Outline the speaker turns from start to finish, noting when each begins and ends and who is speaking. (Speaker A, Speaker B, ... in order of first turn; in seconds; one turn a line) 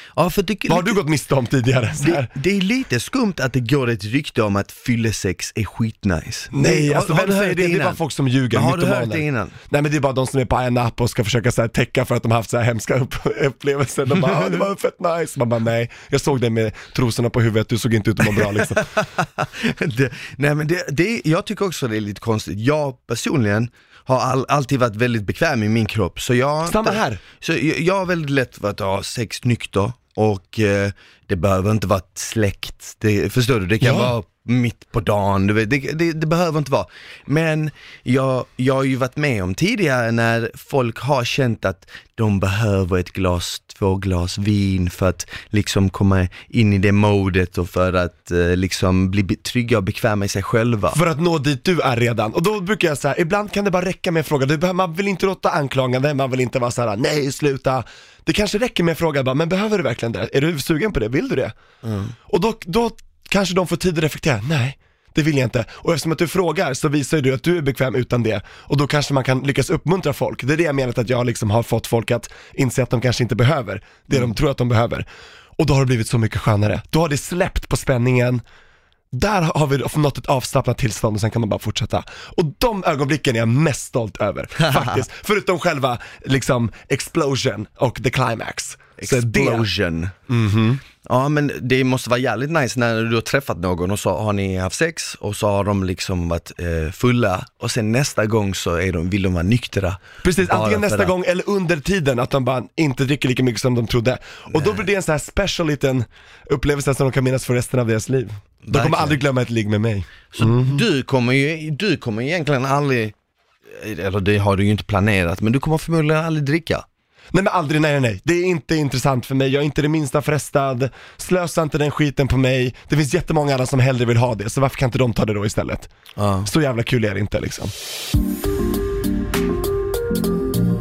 Speaker A: 0.1-1.0
Speaker B: 0.7-2.3
Speaker A: 2.0-8.0
Speaker B: 6.5-18.9
Speaker A: 8.5-9.5
Speaker A: 14.1-14.6
Speaker A: 18.2-51.0
Speaker B: 26.6-27.2
Speaker B: 33.8-34.1
Speaker B: 50.9-61.6
Speaker A: 61.8-62.1
Speaker B: 62.3-75.0
Speaker B: 75.6-78.4
Speaker B: 79.1-89.7
Speaker A: 84.6-85.0
Speaker A: 89.0-90.1
Speaker B: 90.3-90.8
Speaker A: 91.0-101.1
Speaker B: 100.2-110.8
Speaker A: 104.5-104.8
Speaker A: 108.6-109.2
Speaker A: 110.3-113.1
Speaker A: 113.7-116.8
Speaker B: 117.3-125.9
Speaker A: 126.2-126.5
Speaker B: 126.5-127.7